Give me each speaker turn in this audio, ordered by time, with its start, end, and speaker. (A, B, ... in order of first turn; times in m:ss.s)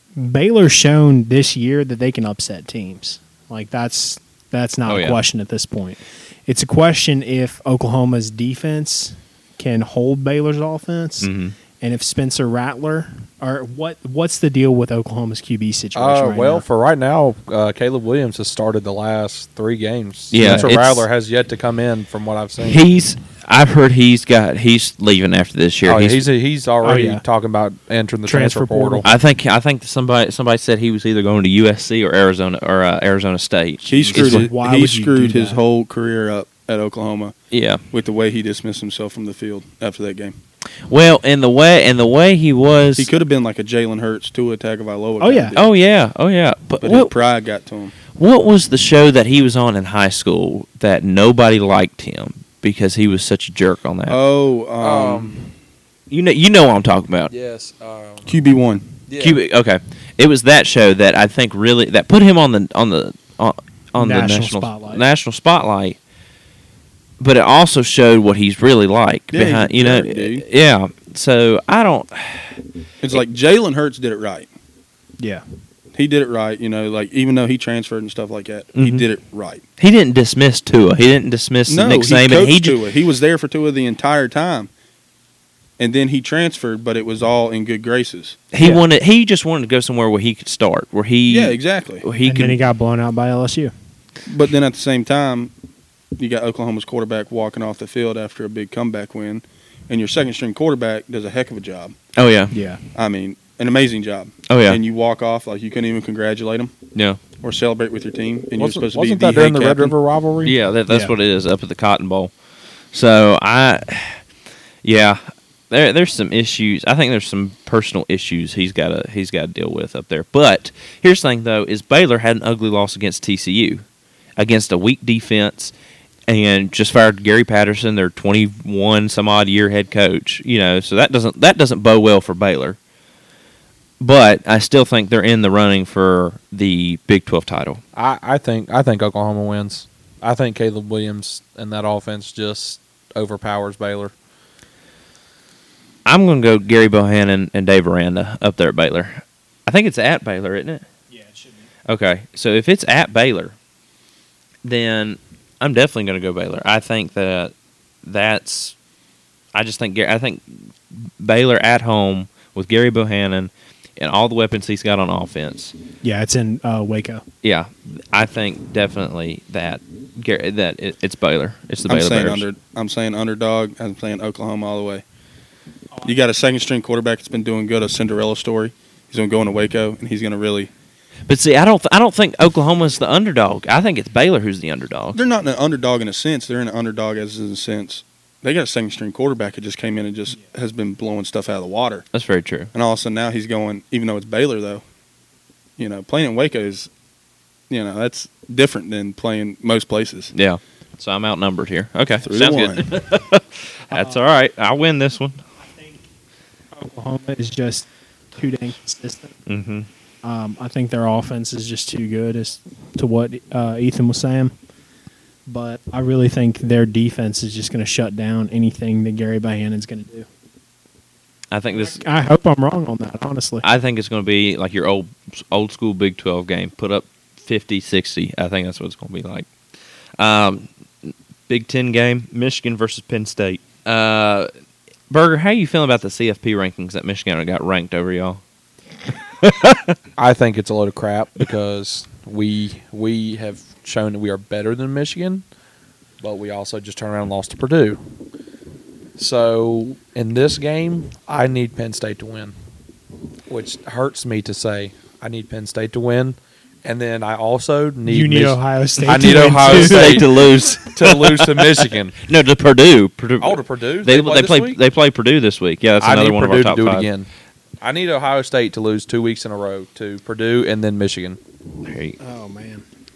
0:00.2-0:16.6 A
0:04.9-0:05.2 B
0:11.2-0:11.6 B
0:16.0-0:22.8 C
0:20.3-0:21.1 B
0:20.4-0:20.7 A
0:22.6-0:26.2 B
0:25.8-0:29.0 C
0:26.8-0:27.2 A
0:28.2-0:29.1 A
0:29.0-0:34.4 B
0:33.8-0:37.4 D
0:34.0-0:35.6 A
0:37.5-0:37.8 B
0:37.9-0:40.4 D
0:40.9-0:43.1 B
0:43.0-0:45.7 D
0:45.2-0:45.6 A
0:45.6-0:47.1 B
0:46.8-0:47.9 D
0:48.1-0:54.2 B
0:54.1-0:55.5 D
0:54.8-0:55.4 C
0:56.1-0:57.3 B
0:57.3-0:58.4 C
0:58.2-0:58.9 D
0:59.1-0:59.4 C
0:59.2-1:06.0 B
1:04.0-1:05.0 A
1:07.2-1:12.6 B
1:09.3-1:10.4 D
1:13.0-1:14.5 D
1:15.2-1:15.4 A
1:15.9-1:19.6 D
1:18.8-1:19.1 B
1:19.8-1:22.8 B
1:21.7-1:24.7 D
1:25.8-1:28.4 D
1:28.5-1:32.6 B
1:31.3-1:32.1 D
1:32.2-1:33.7 A
1:34.2-1:35.5 D
1:36.2-1:42.0 D
1:42.2-1:42.5 B
1:42.5-1:42.8 A
1:43.0-1:46.8 D
1:44.5-1:44.8 B
1:47.0-1:47.2 B
1:47.4-1:50.0 D
1:48.6-1:50.6 C
1:50.4-1:52.3 B
1:52.9-1:54.2 B
1:54.8-2:03.8 B
2:04.4-2:05.7 B
2:06.3-2:12.8 B
2:14.0-2:17.8 B
2:17.9-2:24.1 C
2:26.1-2:30.8 B
2:31.1-2:31.7 A
2:31.9-2:33.6 B
2:34.6-2:38.8 B
2:39.5-2:45.8 B
2:46.0-2:47.2 A
2:47.4-2:52.4 B
2:51.9-2:55.0 D
2:56.0-3:00.7 D
3:01.3-3:05.2 B
3:05.1-3:12.1 D
3:12.1-3:12.7 B
3:12.7-3:14.8 D
3:15.8-3:16.9 D
3:17.7-3:20.3 D
3:20.3-3:25.4 B
3:22.2-3:22.9 D
3:23.9-3:24.2 A
3:25.6-3:26.1 A
3:26.7-3:29.4 A
3:29.5-3:29.9 B
3:30.2-3:34.6 A
3:35.5-3:40.3 A
3:41.5-3:42.0 B
3:41.8-3:43.6 A
3:43.6-3:49.5 B
3:50.2-3:54.5 B
3:55.1-3:58.4 B
3:59.4-4:00.0 B
4:00.2-4:05.4 C
4:06.2-4:08.0 C
4:09.2-4:12.5 C
4:13.5-4:22.2 C
4:18.0-4:20.5 A
4:19.2-4:27.1 B
4:23.4-4:24.8 C
4:26.0-4:27.3 C
4:27.8-4:31.4 C
4:31.8-4:32.2 B
4:32.2-4:32.8 A